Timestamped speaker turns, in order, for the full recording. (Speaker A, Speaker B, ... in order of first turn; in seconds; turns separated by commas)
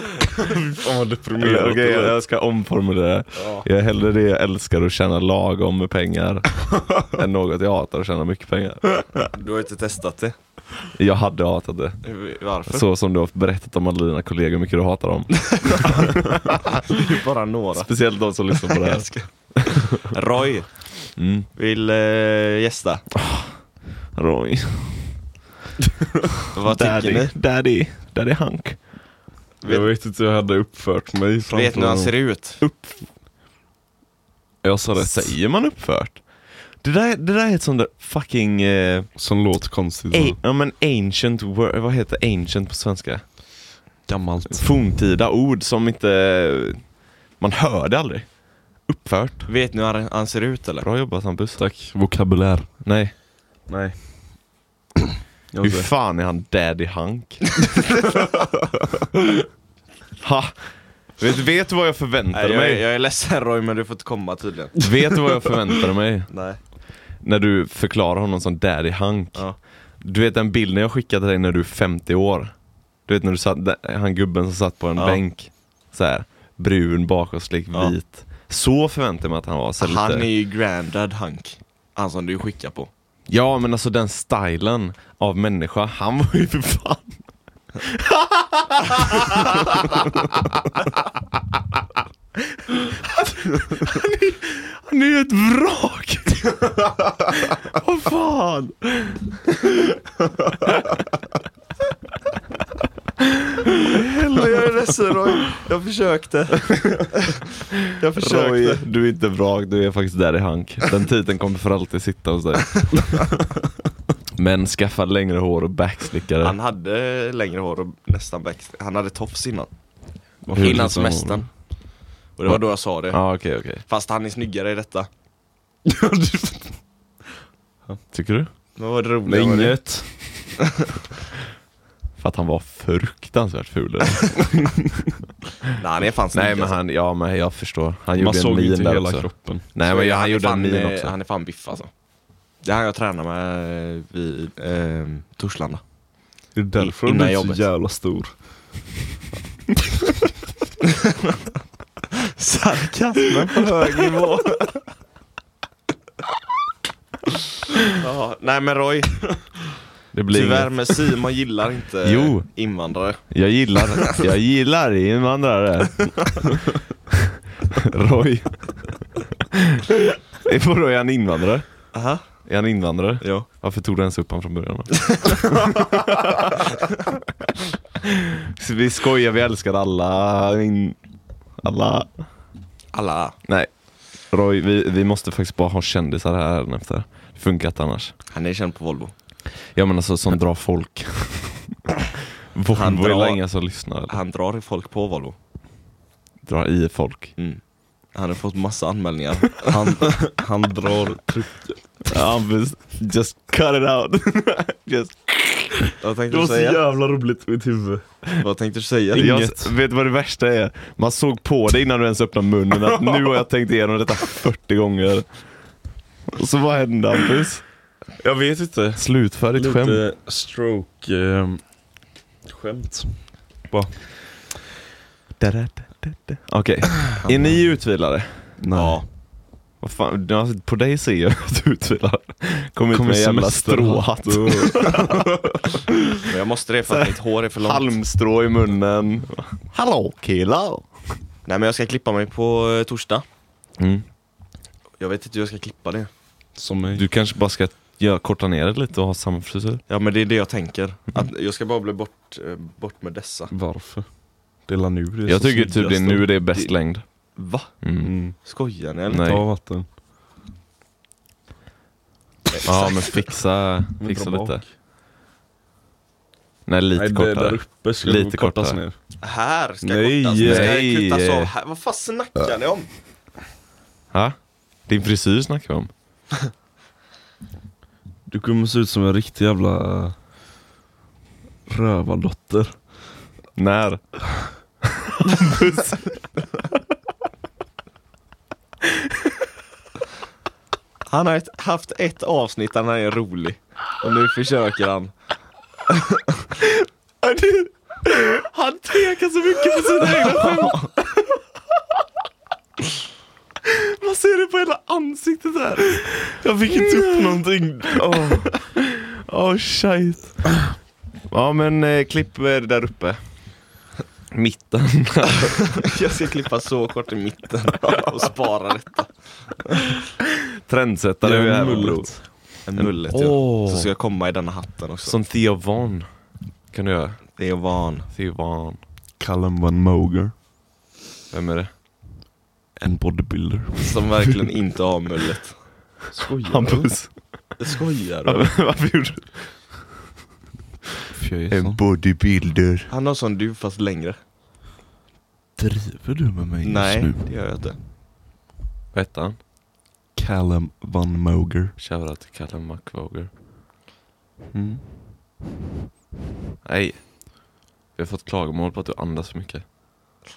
Speaker A: 0.3-2.2, Speaker B: 1.4-9.0, Speaker C: 3.4-3.6, Speaker C: 9.2-10.3, Speaker B: 10.9-12.0, Speaker C: 12.0-12.8, Speaker B: 12.7-16.8, Speaker C: 15.4-16.2, Speaker C: 16.8-23.1, Speaker B: 17.8-19.1, Speaker B: 21.2-21.5, Speaker B: 23.1-25.2, Speaker C: 26.5-27.3, Speaker B: 26.7-28.9, Speaker C: 29.6-29.9, Speaker A: 29.6-32.1, Speaker C: 31.5-32.6, Speaker B: 32.6-33.1, Speaker A: 34.6-35.4, Speaker B: 35.0-36.3, Speaker B: 36.8-39.1, Speaker A: 39.2-40.4, Speaker B: 40.1-43.5, Speaker A: 44.1-44.7, Speaker B: 44.5-49.5, Speaker C: 49.5-50.9, Speaker B: 50.8-51.6, Speaker A: 51.6-52.9, Speaker B: 52.8-53.1, Speaker A: 53.7-54.4, Speaker A: 55.5-55.9, Speaker B: 55.6-57.6, Speaker B: 60.2-62.8, Speaker C: 62.3-64.9, Speaker B: 64.8-66.3, Speaker C: 66.3-66.6, Speaker B: 67.2-72.5, Speaker B: 73.1-80.3, Speaker C: 79.8-82.9, Speaker B: 83.3-87.2, Speaker B: 87.8-90.6, Speaker B: 92.6-99.6, Speaker B: 103.6-104.7, Speaker C: 103.9-108.8, Speaker B: 108.2-113.2, Speaker B: 114.4-116.6, Speaker C: 116.4-119.7, Speaker A: 120.5-121.5, Speaker C: 120.5-121.5, Speaker B: 120.6-120.9, Speaker C: 122.4-125.1, Speaker B: 122.5-123.8, Speaker A: 125.8-126.8, Speaker B: 128.1-128.5, Speaker C: 128.8-129.9, Speaker A: 129.2-130.6, Speaker B: 132.2-134.5, Speaker C: 135.8-136.8, Speaker B: 136.3-141.1, Speaker A: 138.2-139.7, Speaker C: 139.9-141.9, Speaker C: 142.6-145.8, Speaker A: 146.6-148.4, Speaker C: 146.8-147.7, Speaker C: 152.1-154.8, Speaker C: 157.9-159.7, Speaker B: 160.1-161.1, Speaker C: 160.3-163.4, Speaker B: 162.0-162.5, Speaker B: 163.3-166.5, Speaker B: 167.7-171.9, Speaker C: 171.9-172.2, Speaker B: 172.4-176.6, Speaker C: 173.2-173.5, Speaker C: 175.0-175.8, Speaker B: 178.6-181.0, Speaker B: 181.6-182.2, Speaker C: 182.9-183.4, Speaker B: 183.4-188.1, Speaker C: 188.3-189.1, Speaker B: 189.7-191.8, Speaker B: 192.5-194.2, Speaker C: 192.7-195.4, Speaker B: 196.5-197.4, Speaker C: 198.1-200.2, Speaker A: 199.7-201.8, Speaker B: 202.1-205.9, Speaker C: 206.0-206.8, Speaker A: 206.3-208.0, Speaker C: 208.4-209.3, Speaker A: 209.1-209.7, Speaker B: 209.1-215.3, Speaker B: 216.3-217.6, Speaker A: 218.2-221.7, Speaker B: 219.0-220.0, Speaker A: 222.4-224.0, Speaker B: 225.4-228.5, Speaker C: 227.2-227.6, Speaker A: 228.6-229.0, Speaker C: 228.7-229.1, Speaker B: 229.8-235.3, Speaker A: 232.9-235.3, Speaker C: 236.2-238.0, Speaker B: 236.9-240.9, Speaker C: 241.5-243.2, Speaker B: 243.8-244.1, Speaker C: 245.0-246.1, Speaker A: 246.6-247.1, Speaker B: 246.9-249.8, Speaker C: 249.9-253.5, Speaker A: 253.5-256.3, Speaker B: 255.3-258.1, Speaker C: 257.4-257.8, Speaker A: 258.0-258.4, Speaker C: 258.4-259.4, Speaker B: 259.1-259.4, Speaker A: 259.2-259.9, Speaker B: 262.6-264.6, Speaker C: 262.6-263.1, Speaker A: 264.0-264.7, Speaker B: 266.7-268.8, Speaker A: 266.9-269.0, Speaker C: 269.2-272.9, Speaker A: 269.8-270.8, Speaker B: 270.4-271.5, Speaker B: 274.1-275.9, Speaker A: 278.3-280.2, Speaker A: 281.7-282.8, Speaker B: 283.6-284.0, Speaker B: 285.1-286.1, Speaker C: 291.1-295.1, Speaker C: 295.9-296.4, Speaker B: 297.2-301.1, Speaker C: 300.3-300.9, Speaker B: 303.7-310.5, Speaker A: 306.4-308.5, Speaker B: 311.3-313.2, Speaker B: 314.3-315.8, Speaker C: 315.8-320.0, Speaker B: 320.7-323.9, Speaker A: 321.2-322.2, Speaker C: 322.6-325.2, Speaker B: 325.1-326.1, Speaker B: 326.7-327.3, Speaker C: 327.4-328.1, Speaker B: 328.1-328.8, Speaker A: 329.2-330.3, Speaker B: 331.3-331.7, Speaker A: 332.8-334.4, Speaker C: 333.8-335.7, Speaker A: 336.1-336.9, Speaker B: 336.5-337.6, Speaker C: 337.6-338.6, Speaker B: 338.3-339.8, Speaker A: 341.1-341.8, Speaker B: 341.5-342.9, Speaker C: 342.9-344.2, Speaker A: 345.6-347.3, Speaker C: 346.6-347.8, Speaker B: 348.9-349.4, Speaker A: 350.1-351.8, Speaker B: 351.8-353.3, Speaker A: 354.5-354.9, Speaker B: 356.6-359.8